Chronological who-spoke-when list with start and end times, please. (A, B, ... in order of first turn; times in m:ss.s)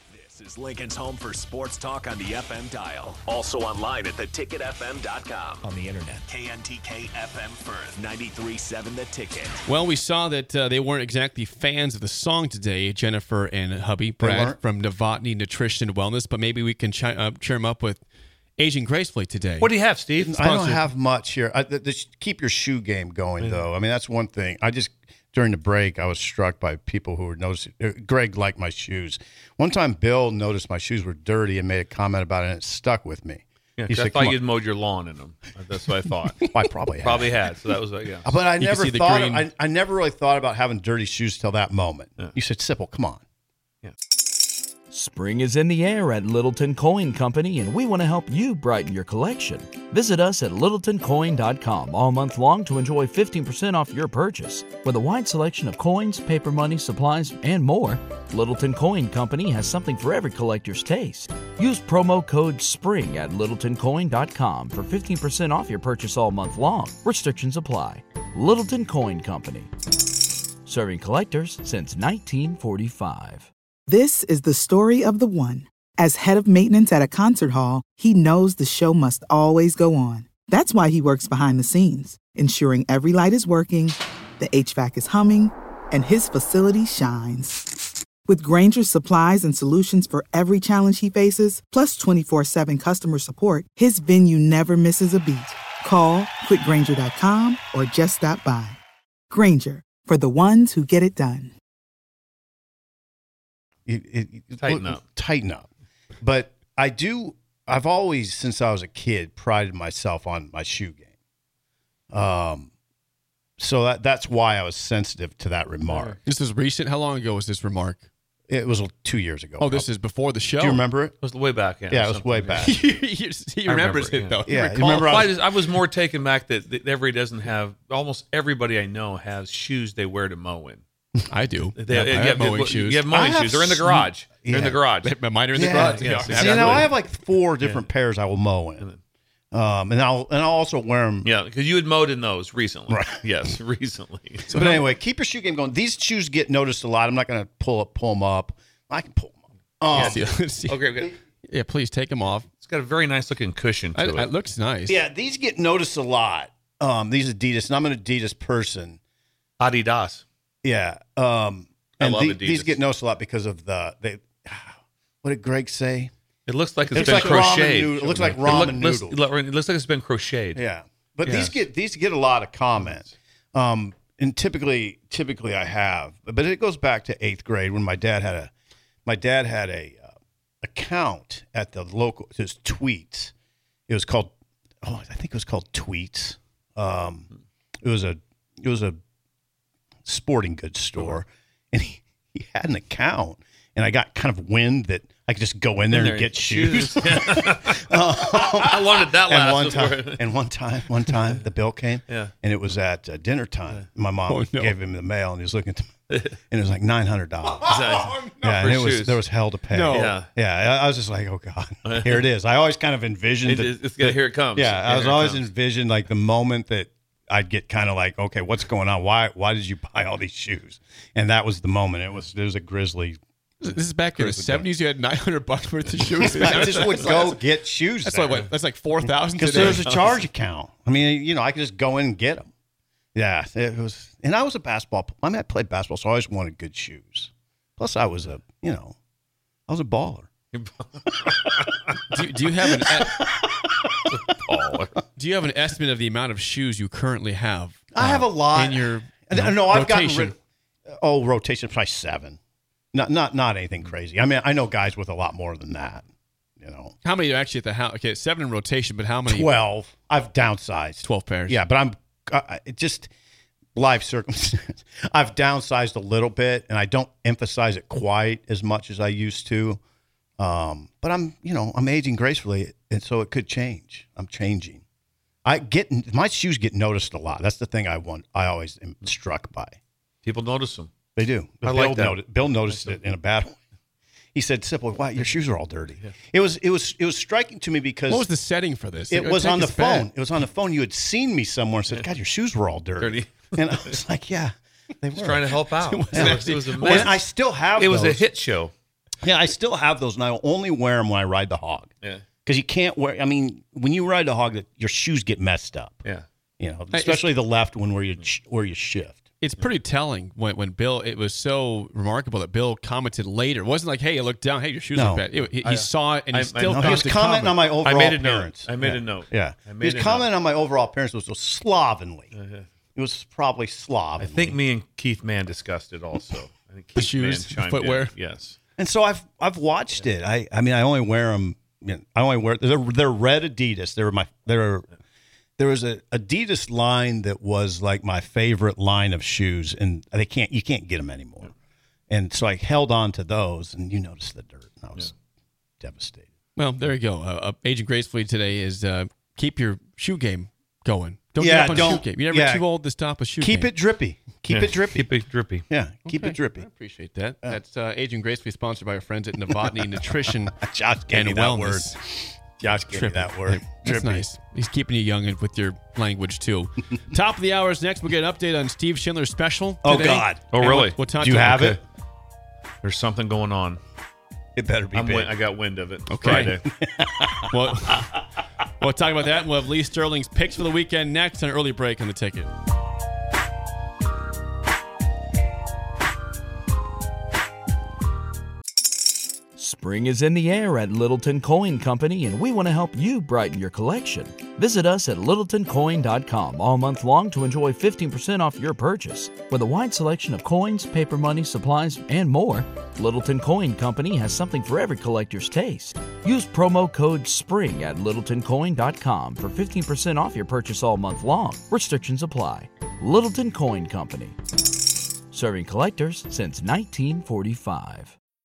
0:00.1-0:09.6 A
0:09.6-0:18.0 B
0:14.2-0:14.6 C
0:18.6-0:19.7 B
0:19.6-0:20.4 D
0:20.2-0:34.4 C
0:20.3-0:20.8 B
0:23.4-0:23.6 D
0:33.8-0:38.4 D
0:36.4-0:37.4 C
0:38.2-0:43.2 C
0:38.6-0:39.4 B
0:44.9-1:09.7 E
1:10.7-1:13.5 E
1:13.9-1:27.7 F
1:28.3-1:38.8 F
1:39.3-1:41.5 F
1:43.9-1:45.7 C
1:44.6-1:45.0 D
1:46.2-1:51.1 C
1:52.1-1:52.7 C
1:53.6-1:56.2 C
1:55.9-1:56.2 D
1:56.2-1:58.1 B
1:58.5-1:59.9 C
1:59.6-2:00.8 B
2:00.6-2:01.2 C
2:01.2-2:02.7 D
2:01.9-2:02.8 C
2:02.6-2:05.0 B
2:03.7-2:10.8 D
2:04.5-2:05.4 C
2:11.3-2:13.1 B
2:11.8-2:17.0 D
2:13.1-2:14.8 C
2:15.0-2:16.9 B
2:15.5-2:18.9 C
2:17.6-2:17.9 D
2:19.5-2:21.3 C
2:21.2-2:24.7 D
2:22.9-2:23.2 C
2:24.5-2:30.2 C
2:24.5-2:24.8 B
2:29.9-2:31.2 D
2:30.0-2:30.9 B
2:30.8-2:31.1 C
2:31.5-2:32.5 B
2:32.6-2:34.3 D
2:33.9-2:35.0 B
2:34.9-2:39.0 C
2:39.6-2:40.2 D
2:40.6-2:46.1 C
2:42.0-2:42.8 D
2:46.5-2:50.6 D
2:46.9-2:49.2 C
2:50.6-2:58.5 C
2:51.2-2:51.7 D
2:52.8-2:53.1 D
2:59.1-3:00.1 C
3:00.6-3:03.3 C
3:03.9-3:04.3 C
3:04.8-3:07.3 C
3:07.8-3:09.0 C
3:10.1-3:43.2 C
3:15.9-3:20.3 D
3:21.0-3:21.5 D
3:22.1-3:22.3 D
3:24.3-3:24.7 B
3:26.1-3:26.4 D
3:27.7-3:29.2 D
3:29.7-3:30.2 B
3:29.9-3:30.3 D
3:31.8-3:32.3 D
3:33.4-3:35.5 D
3:43.6-3:47.4 B
3:44.2-3:44.7 C
3:46.2-3:48.5 C
3:48.0-3:50.0 B
3:49.3-3:52.5 C
3:53.2-3:59.0 C
3:59.7-4:00.3 C
4:00.5-4:02.0 D
4:02.1-4:03.2 B
4:02.7-4:03.9 C
4:04.0-4:05.0 D
4:05.1-4:10.3 B
4:07.9-4:10.4 C
4:10.9-4:12.4 C
4:12.9-4:16.0 C
4:16.6-4:16.9 C
4:17.0-4:19.5 B
4:19.3-4:23.1 C
4:21.0-4:21.6 B
4:23.8-4:29.8 C
4:30.4-4:34.8 C
4:35.4-4:39.8 C
4:40.2-4:40.9 D
4:41.2-4:43.6 C
4:41.6-4:43.0 D
4:44.4-4:48.3 C
4:48.1-4:50.1 B
4:49.1-4:55.5 C
4:53.0-4:54.0 D
4:55.1-4:58.7 D
4:55.8-4:57.2 B
4:56.1-4:58.3 C
4:59.2-5:01.9 C
5:02.4-5:06.0 C
5:06.6-5:09.3 C
5:06.9-5:07.3 B
5:09.4-5:17.7 B
5:14.9-5:15.3 C
5:15.4-5:17.1 D
5:16.7-5:22.3 C
5:17.8-5:20.3 D
5:22.3-5:22.7 D
5:23.0-5:24.6 C
5:24.2-5:28.6 D
5:27.0-5:28.2 B
5:28.8-5:34.9 C
5:35.6-5:41.5 C
5:42.1-5:45.1 C
5:45.8-5:46.3 C
5:46.6-5:53.7 B
5:51.4-5:52.6 C
5:53.4-5:55.1 C
5:54.5-5:55.7 D
5:55.7-5:56.7 C
5:56.0-6:00.6 B
6:00.5-6:04.3 C
6:01.1-6:02.0 B
6:02.7-6:11.7 B
6:09.8-6:11.8 C
6:10.5-6:11.0 D
6:11.5-6:11.8 D
6:12.8-6:13.8 D
6:14.6-6:15.4 C
6:14.9-6:16.6 D
6:16.1-6:16.6 B
6:16.2-6:17.3 C
6:17.5-6:18.2 B
6:18.8-6:22.5 B
6:29.6-6:54.4 E
6:55.3-6:58.1 E